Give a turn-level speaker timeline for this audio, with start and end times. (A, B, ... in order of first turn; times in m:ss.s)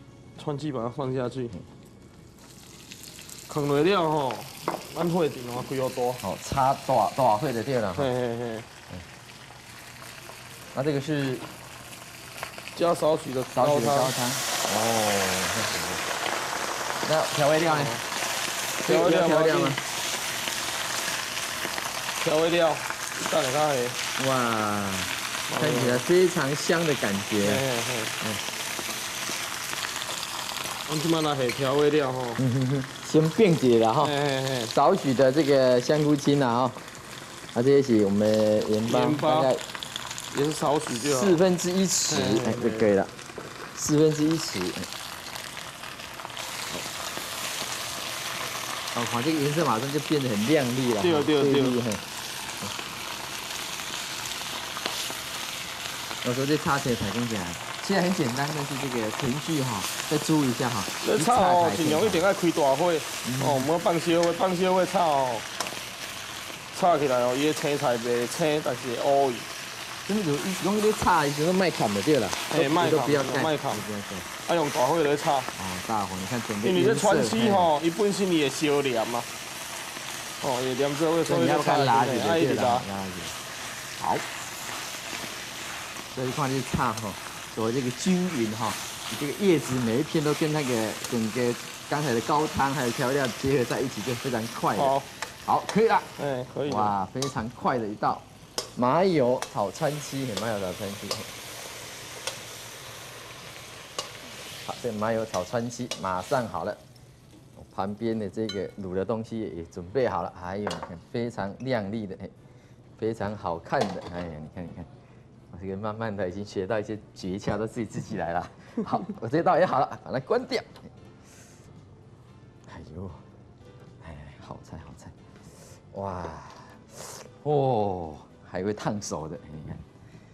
0:00.4-0:01.6 A
0:03.5-0:06.2 A
0:06.2-0:08.1 B
0:07.9-0:08.7 A
0:10.7-0:11.5 B
0:12.7-0:14.1 A
0:13.5-0:16.0 B
0:17.0-0:18.0 B
0:17.7-0:18.0 A
0:18.8-0:19.8 B
0:18.8-0:19.8 A
0:22.2-0:24.0 A
0:24.2-0:27.6 B
0:25.5-0:26.0 A
0:27.4-0:28.2 A
0:30.9-0:32.4 A
0:32.4-0:34.1 B
0:34.0-0:34.7 A
0:34.7-0:36.8 B
0:37.5-0:39.6 B
0:38.8-0:39.5 A
0:40.3-0:41.4 A
0:40.9-0:43.1 B
0:42.1-0:42.9 A
0:43.7-0:44.9 B
0:48.9-0:52.0 B
0:51.0-0:51.8 A
0:56.2-1:02.2 B
1:01.0-1:05.5 A
1:03.2-1:03.7 B
1:06.7-1:09.5 A
1:10.0-1:14.3 B
1:12.5-1:13.8 A
1:14.4-1:15.5 A
1:15.5-1:17.7 B
1:16.6-1:19.3 A
1:20.4-1:22.9 A
1:21.2-1:23.4 B
1:24.0-1:24.2 B
1:26.1-1:36.1 B
1:34.7-1:35.1 A
1:36.2-1:36.9 A
1:36.6-1:41.4 B
1:44.6-1:46.8 B
1:47.6-1:52.3 B
1:53.0-1:54.9 B
1:55.5-2:00.9 B
2:02.7-2:03.2 B
2:04.0-2:09.8 B